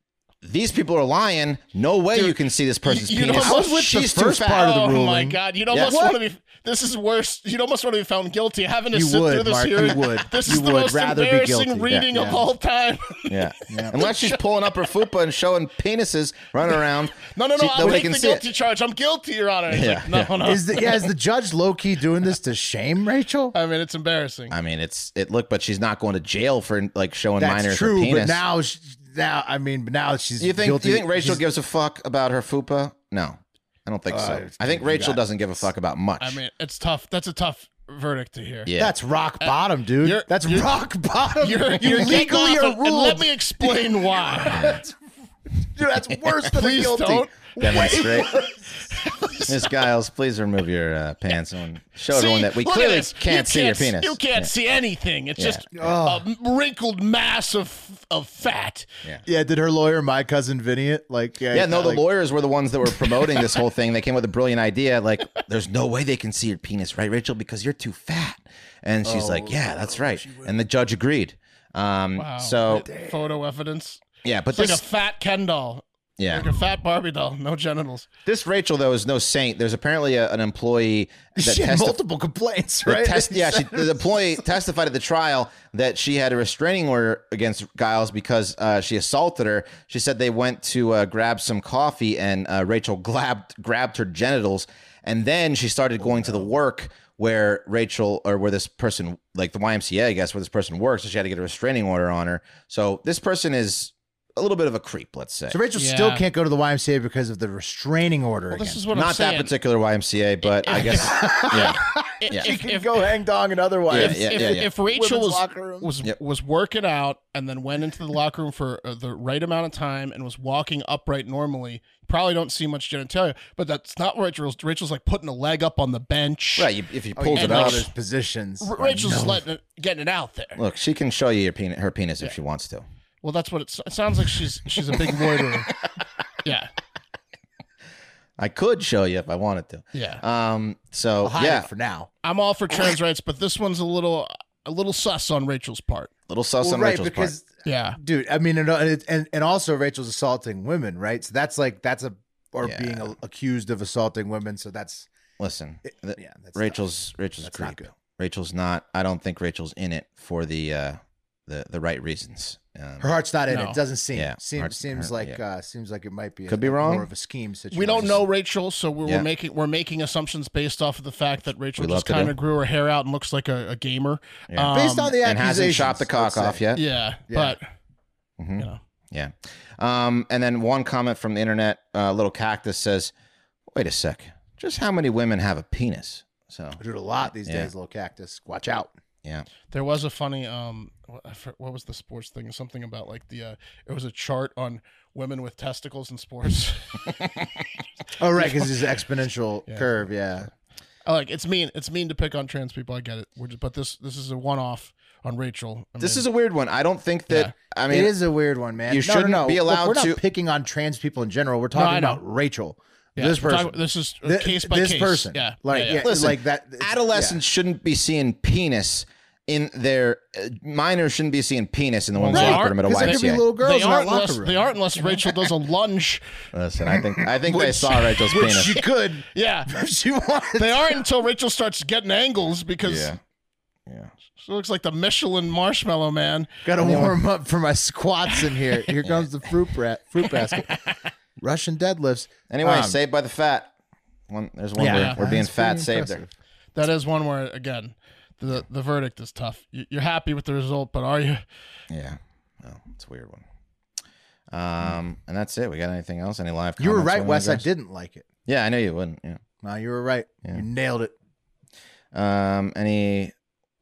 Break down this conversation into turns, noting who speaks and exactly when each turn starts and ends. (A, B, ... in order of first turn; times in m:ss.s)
0:00.4-0:04.7 A
0:02.1-0:03.9 B
0:03.3-0:05.4 C
0:04.5-0:14.4 B
0:05.7-0:06.2 A
0:08.9-0:12.4 C
0:13.3-0:18.4 A
0:17.1-0:21.1 B
0:19.7-0:20.3 A
0:20.4-0:23.6 C
0:23.5-0:24.6 B
0:24.5-0:28.4 A
0:27.4-0:31.4 C
0:30.4-0:36.4 A
0:34.1-0:35.6 C
0:36.2-0:38.7 B
0:38.7-0:39.0 A
0:38.8-0:45.0 C
0:39.4-0:40.8 B
0:41.4-0:44.8 B
0:45.6-0:48.8 C
0:46.5-0:48.1 B
0:47.6-0:48.4 A
0:49.4-0:54.5 A
0:52.1-0:58.9 B
0:55.4-0:55.7 A
0:55.8-0:56.2 C
0:59.3-1:02.0 C
1:01.5-1:12.9 A
1:09.0-1:10.6 C
1:12.2-1:18.1 B
1:12.8-1:13.2 C
1:14.2-1:14.8 A
1:16.2-1:16.5 A
1:18.3-1:22.0 A
1:21.4-1:24.4 C
1:22.8-1:45.6 A
1:36.0-1:36.5 C
1:45.5-1:48.8 C
1:45.8-1:46.2 B
1:48.5-1:49.5 B
1:48.9-1:52.5 A
1:50.5-1:52.9 B
1:50.8-1:55.9 C
1:53.9-1:54.7 A
1:53.9-2:06.7 B
2:06.6-2:07.8 A
2:07.2-2:09.4 C
2:07.4-2:07.9 B
2:08.6-2:10.6 B
2:10.6-2:12.8 A
2:13.2-2:15.7 B
2:16.4-2:16.7 B
2:18.4-2:21.7 A
2:19.9-2:20.2 B
2:21.2-2:22.1 C
2:22.2-2:26.1 B
2:26.3-2:27.3 A
2:26.6-2:35.1 C
2:27.6-2:28.0 B
2:32.6-2:33.1 A
2:35.4-2:43.1 A
2:36.2-2:36.8 C
2:37.4-2:37.9 C
2:43.0-2:48.2 C
2:43.5-2:43.8 B
2:44.1-2:45.4 A
2:46.5-2:47.1 A
2:47.7-2:55.2 B
2:51.8-2:52.3 A
2:54.5-2:56.8 A
2:54.7-2:56.6 C
2:56.8-2:57.7 B
2:57.3-2:57.6 C
2:58.4-3:03.1 A
3:03.7-3:06.8 A
3:06.8-3:09.0 C
3:07.4-3:07.7 A
3:09.7-3:17.2 B
3:18.2-3:20.5 C
3:18.4-3:18.7 B
3:21.1-3:26.2 B
3:26.0-3:28.2 A
3:27.9-3:37.4 C
3:28.9-3:30.2 A
3:31.8-3:32.2 B
3:33.2-3:36.0 B
3:36.0-3:43.4 A
3:42.2-3:46.3 B
3:42.3-3:45.5 C
3:46.5-3:48.8 A
3:46.8-3:51.0 C
3:49.3-3:49.7 B
3:50.6-3:53.1 B
3:52.8-3:53.2 A
3:53.9-3:54.1 A
3:54.4-3:56.5 B
3:56.6-4:00.8 C
3:56.8-3:57.2 A
4:01.4-4:03.0 C
4:02.5-4:03.7 A
4:04.3-4:06.2 A
4:04.8-4:06.3 C
4:04.8-4:05.2 B
4:06.8-4:11.4 B
4:11.9-4:13.4 A
4:14.5-4:17.7 A
4:16.8-4:18.3 C
4:18.5-4:19.4 A
4:19.6-4:21.1 C
4:22.1-4:23.3 A